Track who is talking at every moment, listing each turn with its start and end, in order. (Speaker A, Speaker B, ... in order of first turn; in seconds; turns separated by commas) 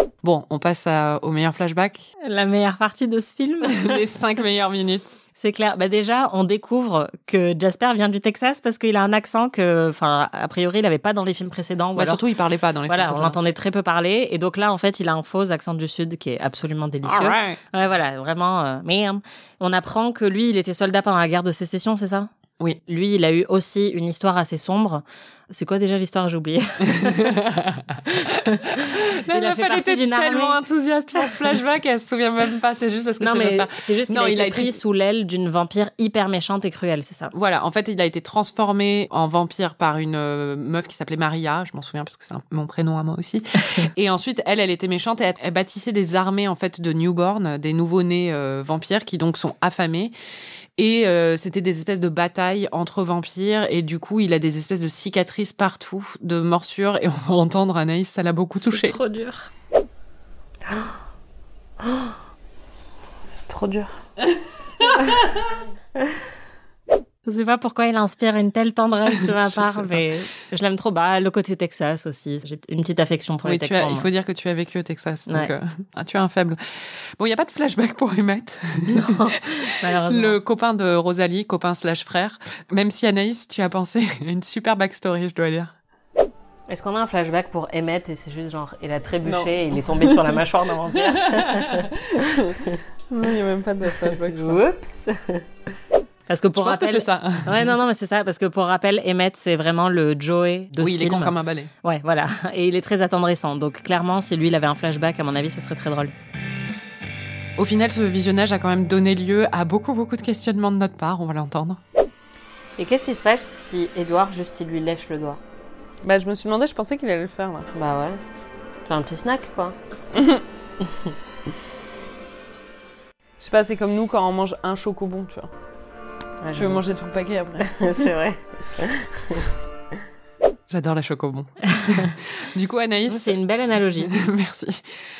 Speaker A: 0.2-2.1, Speaker B: 2.2-4.0, Speaker A: 3.7-5.2, Speaker B: 5.4-12.2, Speaker A: 12.0-13.4, Speaker B: 12.9-22.3, Speaker A: 17.1-17.6, Speaker B: 22.9-27.3, Speaker A: 26.9-34.8, Speaker B: 28.1-30.6, Speaker B: 33.2-37.3, Speaker A: 37.3-50.1, Speaker A: 50.8-59.0, Speaker B: 58.6-59.5, Speaker C: 61.8-62.1, Speaker C: 63.3-63.9, Speaker B: 67.3-74.1, Speaker A: 69.2-70.0, Speaker A: 73.5-76.6, Speaker A: 77.2-79.3, Speaker B: 78.9-80.4, Speaker A: 80.1-85.7, Speaker C: 86.7-92.8, Speaker D: 89.2-90.3, Speaker D: 90.9-92.6, Speaker D: 93.1-94.6, Speaker C: 94.0-95.5, Speaker B: 96.3-106.1, Speaker A: 96.6-97.7, Speaker A: 100.8-101.7, Speaker A: 107.6-111.8, Speaker C: 112.8-115.4, Speaker D: 116.0-117.7, Speaker C: 117.7-118.2, Speaker C: 118.9-119.8, Speaker D: 123.4-125.5, Speaker C: 126.4-126.8, Speaker D: 126.5-128.1, Speaker C: 127.6-129.5, Speaker A: 130.7-133.4, Speaker B: 133.1-134.1, Speaker A: 134.0-134.8